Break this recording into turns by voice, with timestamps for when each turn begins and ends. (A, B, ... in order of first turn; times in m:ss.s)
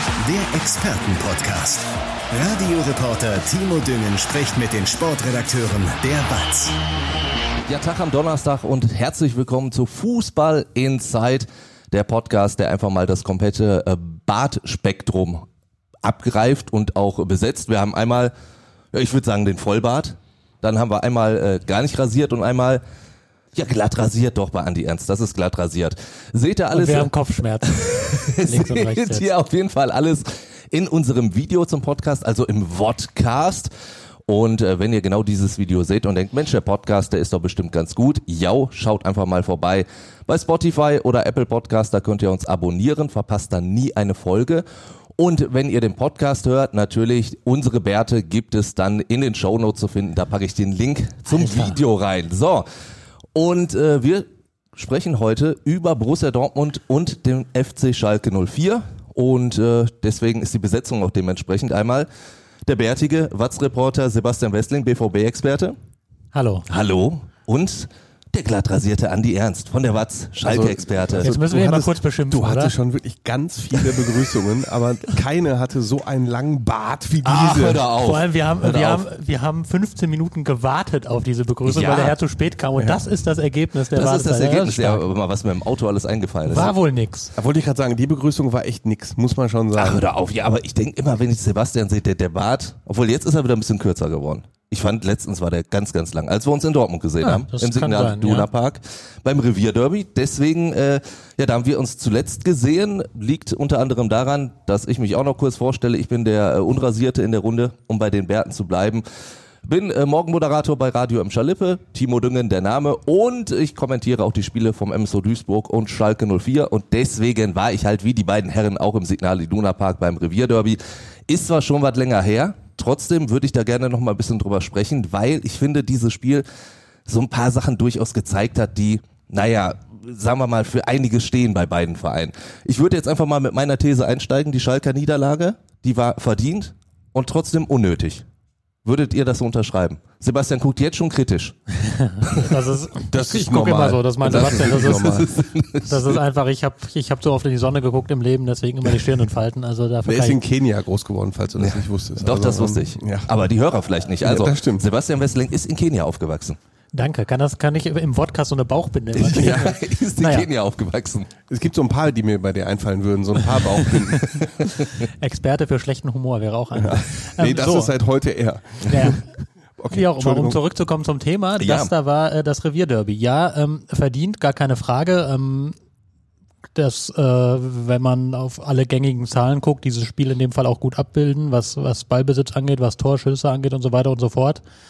0:00.2-0:06.8 A
0:07.7-0:15.4 B
0:16.0-0:18.3 B
0:18.9-0:22.8 B
0:23.5-0:27.1 B
0:26.7-0:29.2 C
0:27.6-0:33.7 B
0:34.2-0:44.6 B
0:45.2-0:52.7 B
0:51.3-0:51.8 C
0:53.3-1:02.1 B
1:02.6-1:05.8 B
1:06.3-1:06.6 C
1:06.7-1:11.3 B
1:10.4-1:17.8 D
1:11.2-1:12.7 C
1:17.2-1:19.0 B
1:18.0-1:25.0 C
1:21.6-1:22.2 B
1:23.9-1:26.7 B
1:26.4-1:27.3 C
1:27.3-1:30.0 D
1:29.7-1:49.0 B
1:37.2-1:38.5 C
1:49.6-2:06.4 B
2:07.1-2:18.2 B
2:18.8-2:21.6 B
2:21.8-2:25.2 C
2:22.2-2:22.6 B
2:23.1-2:25.3 D
2:24.2-2:26.2 B
2:25.8-2:30.4 C
2:30.0-2:33.3 D
2:31.6-2:36.6 B
2:34.2-2:34.8 D
2:36.9-2:40.5 C
2:39.2-2:41.3 B
2:39.4-2:39.7 D
2:41.5-2:44.4 D
2:43.7-2:45.0 B
2:45.0-2:47.9 C
2:46.7-2:49.2 D
2:48.9-2:49.2 C
2:49.8-2:50.6 D
2:49.9-2:55.8 C
2:51.6-2:51.9 B
2:56.7-3:04.6 C